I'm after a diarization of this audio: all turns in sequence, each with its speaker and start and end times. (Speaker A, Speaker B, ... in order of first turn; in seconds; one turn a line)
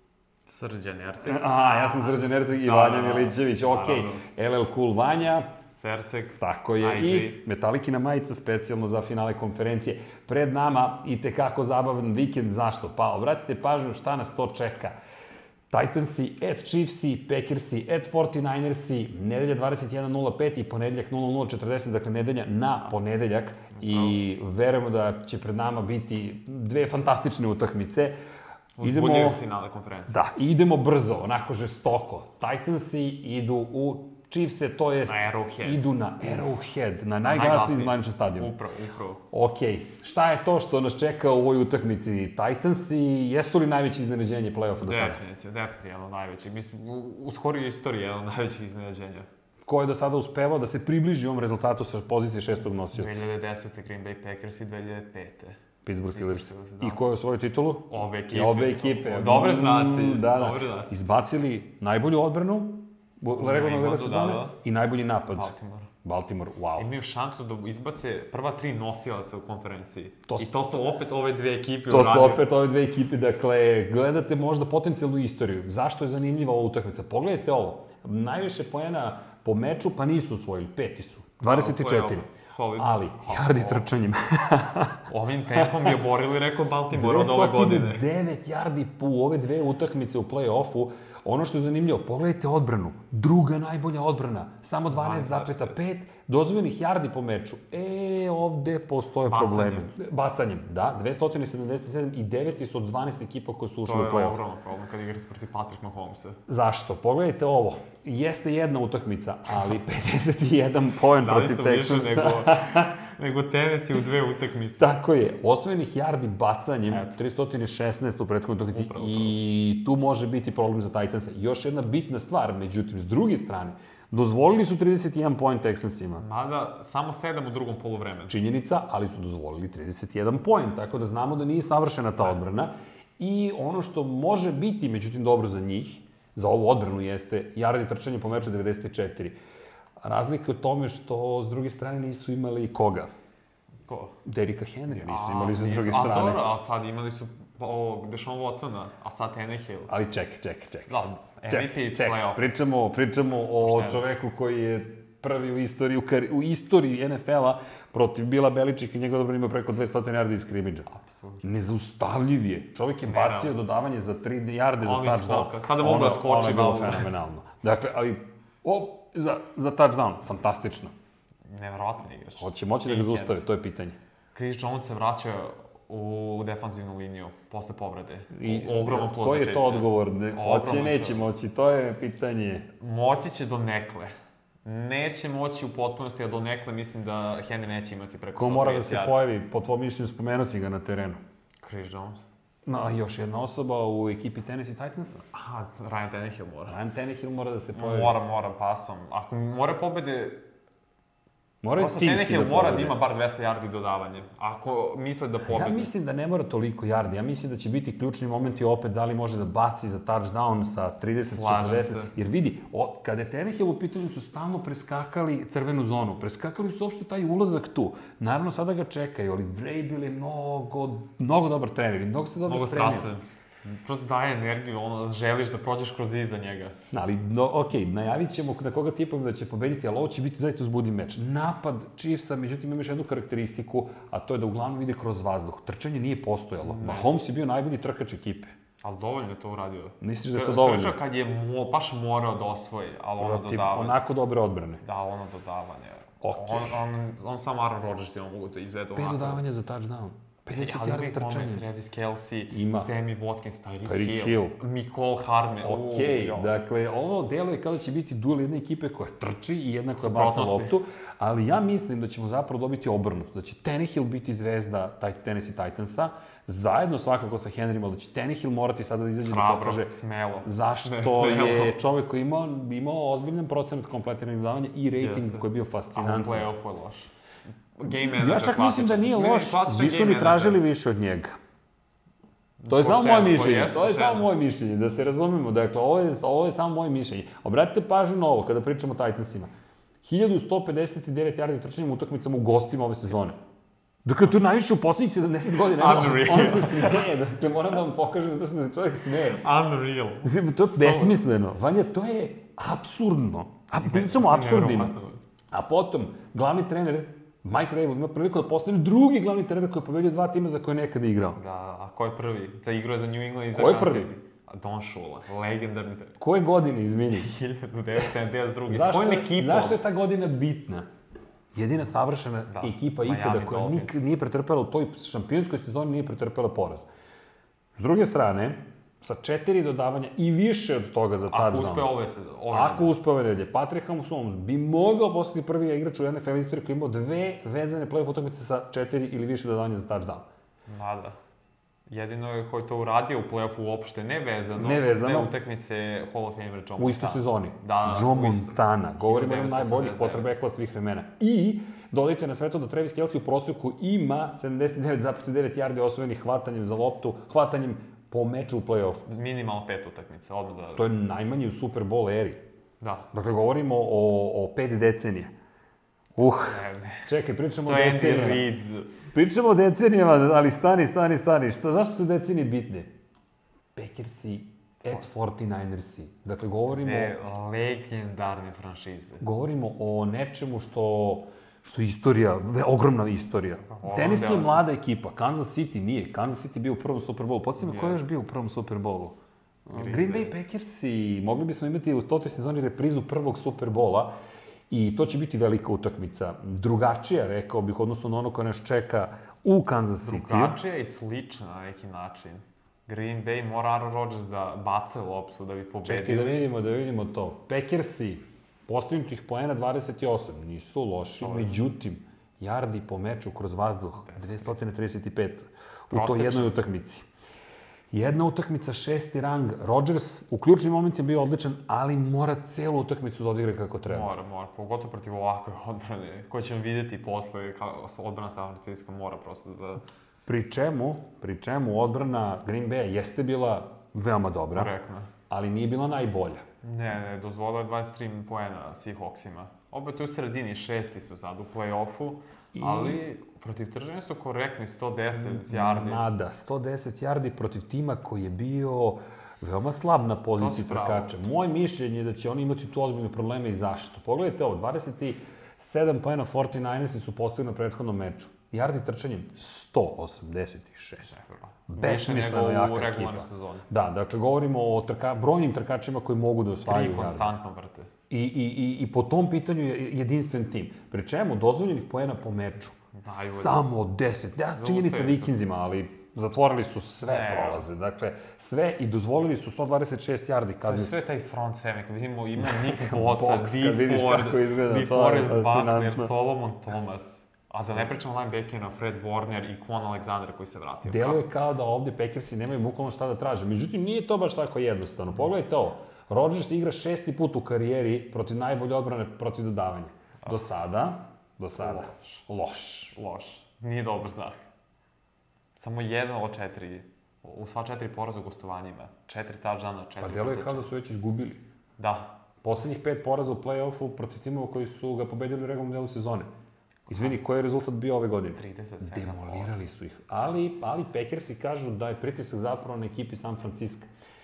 Speaker A: 0.5-4.2
Speaker B: 1.2-5.5
Speaker A: 5.7-7.4
Speaker B: 6.4-14.9
Speaker B: 15.7-28.1
Speaker A: 23.7-24.2
Speaker A: 28.8-30.2
Speaker B: 28.8-29.4
Speaker B: 30.1-38.5
Speaker A: 35.0-35.9
Speaker A: 37.2-39.2
Speaker B: 39.3-45.2
Speaker A: 44.8-49.3
Speaker B: 49.6-53.2
Speaker A: 52.9-57.0
Speaker B: 55.9-65.5
Speaker A: 57.9-61.0
Speaker A: 63.3-64.6
Speaker A: 65.3-65.9
Speaker B: 66.0-66.9
Speaker A: 66.8-72.5
Speaker B: 70.3-70.5
Speaker B: 71.9-85.0
Speaker A: 81.4-83.9
Speaker A: 85.1-88.1
Speaker B: 85.5-86.0
Speaker B: 86.9-104.4
Speaker A: 94.9-95.8
Speaker A: 99.2-99.9
Speaker A: 103.8-106.4
Speaker B: 106.5-112.9
Speaker A: 111.2-114.9
Speaker B: 114.8-126.2
Speaker A: 116.9-117.2
Speaker A: 118.7-119.4
Speaker A: 126.2-128.4
Speaker B: 128.3-139.3
Speaker B: 140.0-143.1
Speaker A: 143.9-144.2
Speaker B: 144.2-146.5
Speaker A: 144.9-149.9
Speaker B: 149.9-160.9
Speaker A: 150.9-152.5
Speaker A: 153.6-154.1
Speaker A: 160.9-161.4
Speaker B: 161.4-170.9
Speaker A: 163.1-163.6
Speaker A: 164.8-167.1
Speaker A: 171.5-173.4
Speaker B: 172.4-174.0
Speaker A: 174.3-181.2
Speaker B: 178.3-182.7
Speaker A: 182.8-184.1
Speaker A: 184.7-189.2
Speaker B: 188.3-191.2
Speaker A: 191.6-192.2
Speaker B: 192.7-195.2
Speaker A: 195.3-196.8
Speaker B: 196.7-198.2
Speaker A: 197.7-200.4
Speaker B: 201.6-202.9
Speaker A: 201.7-205.9
Speaker B: 205.5-223.2
Speaker A: 211.2-212.1
Speaker A: 222.4-226.7
Speaker B: 226.9-238.5
Speaker A: 236.6-237.1
Speaker A: 238.8-244.0
Speaker B: 240.0-241.0
Speaker B: 243.2-244.8
Speaker A: 244.8-249.4
Speaker B: 246.2-246.8
Speaker B: 248.9-251.7
Speaker A: 250.5-256.5
Speaker B: 252.5-252.9
Speaker B: 253.8-254.6
Speaker B: 255.6-276.5
Speaker A: 260.0-260.8
Speaker A: 269.2-271.8
Speaker A: 274.9-277.1
Speaker A: 277.8-280.6
Speaker B: 277.9-281.4
Speaker A: 282.6-284.3
Speaker B: 282.7-289.5
Speaker B: 290.0-293.4
Speaker B: 294.1-299.4
Speaker A: 295.6-297.1
Speaker A: 299.4-301.2
Speaker B: 300.2-304.9
Speaker A: 303.8-305.2
Speaker B: 305.5-311.4
Speaker A: 311.4-316.2
Speaker B: 313.5-314.1
Speaker B: 316.2-317.3
Speaker A: 317.1-319.8
Speaker B: 318.7-320.9
Speaker B: 321.6-326.9
Speaker A: 322.5-324.0
Speaker B: 327.8-331.9
Speaker A: 331.3-332.9
Speaker B: 332.5-340.2
Speaker A: 340.7-341.2
Speaker A: 341.9-350.4
Speaker B: 344.6-345.3
Speaker B: 346.8-359.1
Speaker A: 359.1-360.9
Speaker B: 360.8-362.4
Speaker A: 362.8-363.1
Speaker B: 363.1-365.3
Speaker B: 366.2-368.5
Speaker A: 366.4-367.1
Speaker A: 367.6-368.9
Speaker B: 369.1-372.9
Speaker B: 373.8-377.2
Speaker A: 376.7-379.2
Speaker B: 379.2-389.2
Speaker A: 383.6-384.6
Speaker A: 387.6-388.0
Speaker B: 389.7-394.1
Speaker A: 389.7-390.3
Speaker B: 394.7-400.6
Speaker A: 400.0-406.5
Speaker B: 405.9-417.1
Speaker A: 411.2-411.6
Speaker A: 414.0-414.7
Speaker A: 415.9-416.6
Speaker B: 417.9-424.1
Speaker A: 423.9-429.8
Speaker B: 430.3-434.7
Speaker A: 434.5-435.1
Speaker B: 435.3-436.4
Speaker A: 436.6-446.1
Speaker B: 442.6-443.0
Speaker B: 445.1-461.1
Speaker A: 450.3-451.1
Speaker A: 461.1-463.7
Speaker B: 461.7-467.3
Speaker A: 466.6-467.9
Speaker B: 468.1-481.0
Speaker A: 472.9-473.6
Speaker A: 474.5-475.4
Speaker A: 477.0-477.7
Speaker A: 480.6-491.2
Speaker B: 482.4-486.1
Speaker B: 490.8-503.0
Speaker A: 501.6-502.2
Speaker A: 502.9-504.4
Speaker A: 505.6-510.7
Speaker B: 510.0-511.4
Speaker A: 511.8-512.1
Speaker B: 512.4-516.3
Speaker A: 516.9-517.2
Speaker B: 516.9-523.9
Speaker A: 518.3-519.6